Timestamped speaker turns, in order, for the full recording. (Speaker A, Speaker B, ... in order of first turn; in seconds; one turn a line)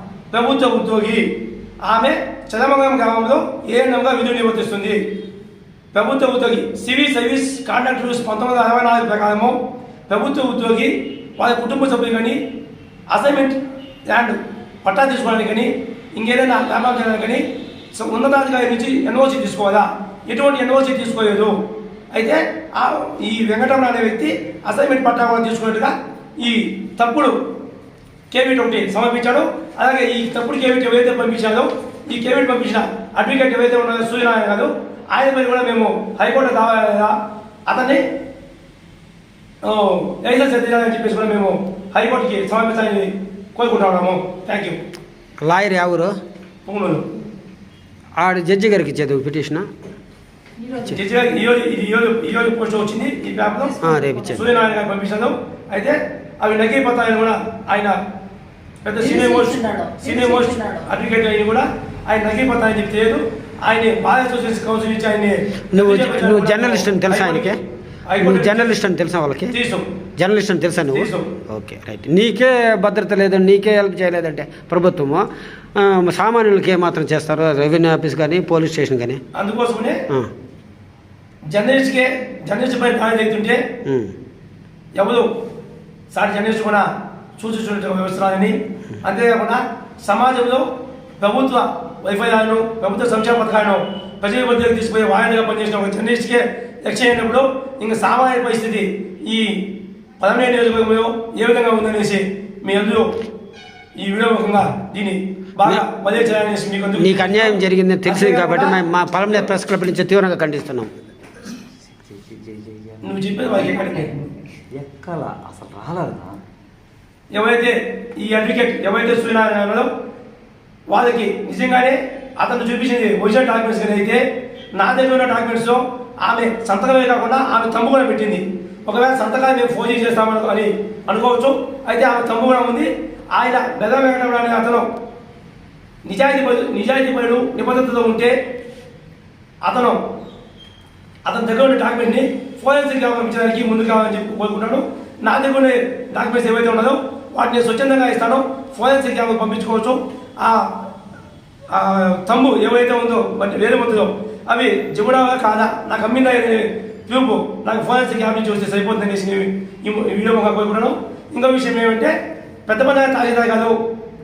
Speaker A: 0.3-5.0
Speaker A: 5.9-9.6
Speaker A: 10.1-12.4
Speaker A: 13.1-13.6
Speaker A: 14.1-17.4
Speaker A: 17.9-21.6
Speaker A: 22.1-27.4
Speaker A: 28.3-38.0
Speaker A: 39.6-44.8
Speaker B: 45.4-46.1
Speaker A: 46.6-47.0
Speaker B: 48.2-49.7
Speaker C: 50.6-51.1
Speaker A: 50.9-53.7
Speaker C: 53.5-54.5
Speaker B: 53.8-54.5
Speaker A: 54.3-58.0
Speaker A: 58.8-68.8
Speaker C: 59.0-60.9
Speaker B: 65.7-67.6
Speaker B: 68.2-69.5
Speaker A: 69.5-69.8
Speaker B: 70.2-75.2
Speaker A: 70.9-71.3
Speaker B: 75.8-79.2
Speaker A: 79.3-80.0
Speaker A: 81.5-83.6
Speaker B: 83.8-84.1
Speaker A: 85.0-85.3
Speaker A: 86.1-86.9
Speaker A: 87.4-99.6
Speaker A: 100.2-103.1
Speaker A: 104.0-109.5
Speaker B: 107.0-110.9
Speaker D: 111.9-116.4
Speaker A: 113.0-114.1
Speaker A: 117.3-119.9
Speaker A: 120.9-124.2
Speaker A: 124.8-134.9
Speaker A: 136.1-138.4
Speaker A: 139.6-140.0
Speaker A: 141.3-150.7
Speaker A: 151.7-162.2
Speaker A: 162.7-163.8